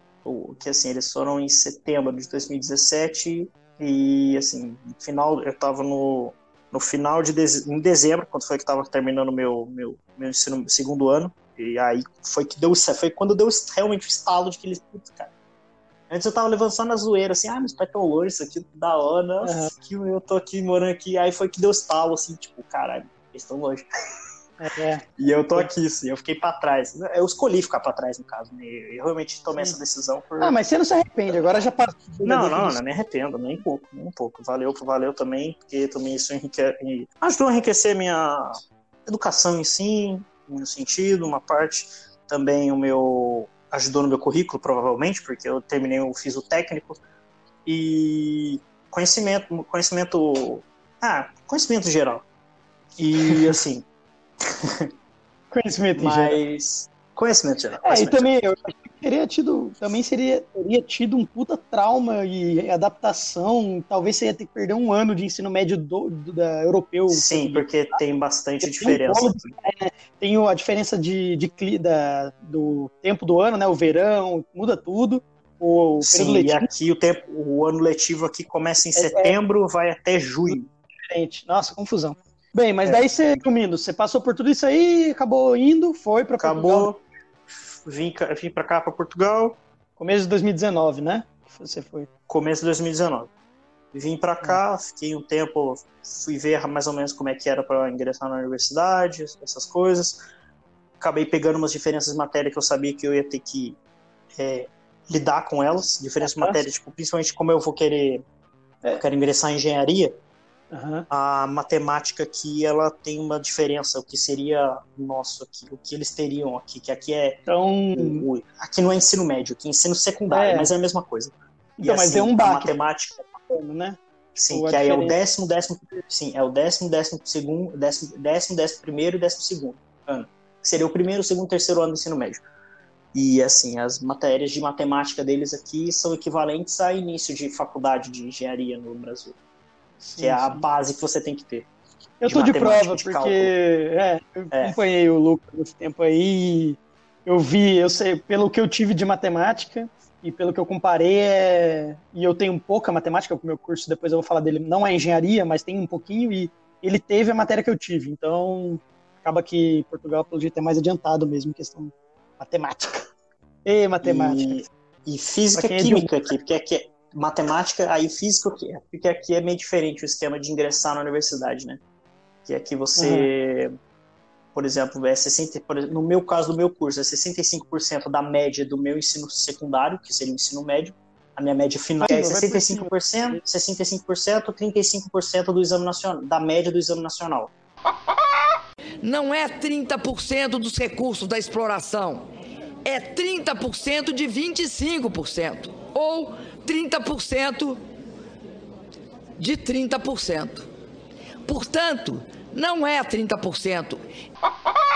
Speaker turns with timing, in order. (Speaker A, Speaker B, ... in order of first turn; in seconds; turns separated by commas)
Speaker A: 0.2-15.3, Speaker A: 16.1-23.9, Speaker B: 19.4-19.7, Speaker B: 24.6-25.0, Speaker A: 25.2-30.6, Speaker B: 30.4-32.8, Speaker A: 32.2-47.0, Speaker A: 47.6-52.2, Speaker A: 53.0-53.9, Speaker A: 54.5-54.9, Speaker B: 55.5-56.4, Speaker A: 55.9-58.3, Speaker B: 57.8-67.7, Speaker A: 67.1-69.5, Speaker B: 68.6-76.7, Speaker A: 76.0-80.7, Speaker B: 78.9-79.3, Speaker B: 81.1-86.9, Speaker A: 82.8-83.4, Speaker A: 86.4-89.6, Speaker B: 90.0-92.1, Speaker A: 92.3-93.3, Speaker A: 93.9-100.2, Speaker A: 101.0-103.8, Speaker A: 104.3-108.2, Speaker B: 106.2-106.6, Speaker A: 108.9-110.1, Speaker B: 110.7-111.1, Speaker A: 111.1-117.4, Speaker B: 117.5-118.2, Speaker A: 117.9-123.3, Speaker B: 120.3-120.7, Speaker B: 121.8-122.7, Speaker B: 123.5-125.1, Speaker A: 124.3-132.4, Speaker A: 133.1-139.4, Speaker B: 140.0-140.6, Speaker A: 140.2-141.7, Speaker B: 142.2-163.1, Speaker A: 142.2-143.5, Speaker A: 144.5-144.8, Speaker B: 163.6-164.6, Speaker A: 164.0-171.8, Speaker B: 165.5-166.1, Speaker A: 172.4-173.7, Speaker B: 172.9-173.3, Speaker A: 174.5-187.5, Speaker B: 182.0-183.4, Speaker C: 189.0-192.3, Speaker C: 192.8-197.8, Speaker C: 199.4-200.7, Speaker C: 201.4-204.0